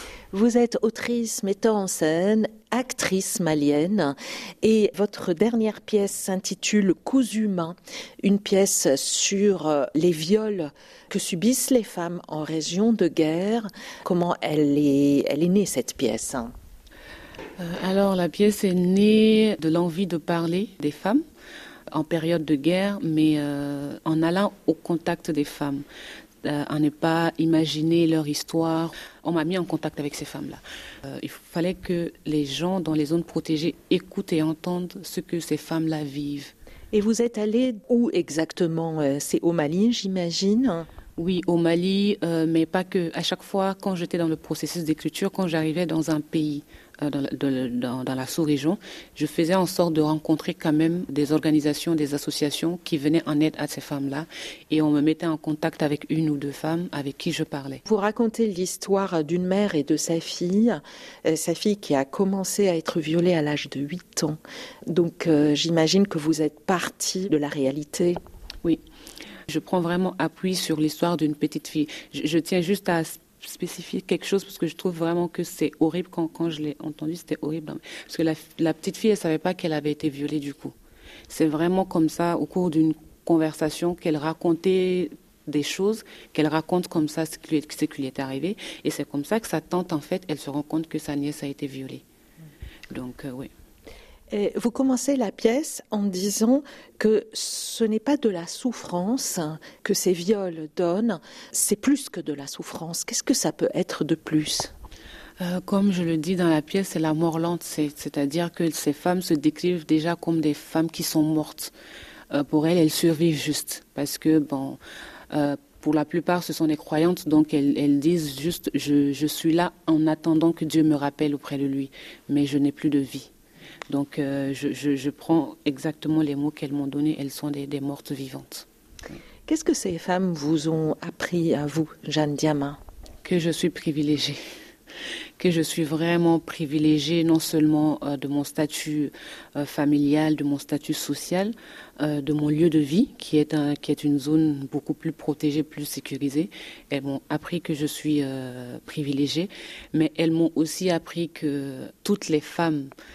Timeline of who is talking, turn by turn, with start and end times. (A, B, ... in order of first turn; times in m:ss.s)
0:00.3-0:16.5 A
0:17.6-0:21.2 B
0:21.9-0:25.8 B
0:26.4-0:36.5 B
0:36.9-0:40.9 A
0:41.2-0:57.8 B
0:57.8-1:08.2 A
1:09.5-1:20.7 B
1:21.3-1:32.0 B
1:32.9-1:33.5 B
1:34.3-1:44.7 A
1:45.4-1:51.7 B
1:52.3-1:54.8 B
1:55.3-2:03.3 B
2:03.9-2:09.1 B
2:09.5-2:12.8 A
2:13.2-2:14.4 B
2:15.4-2:32.9 B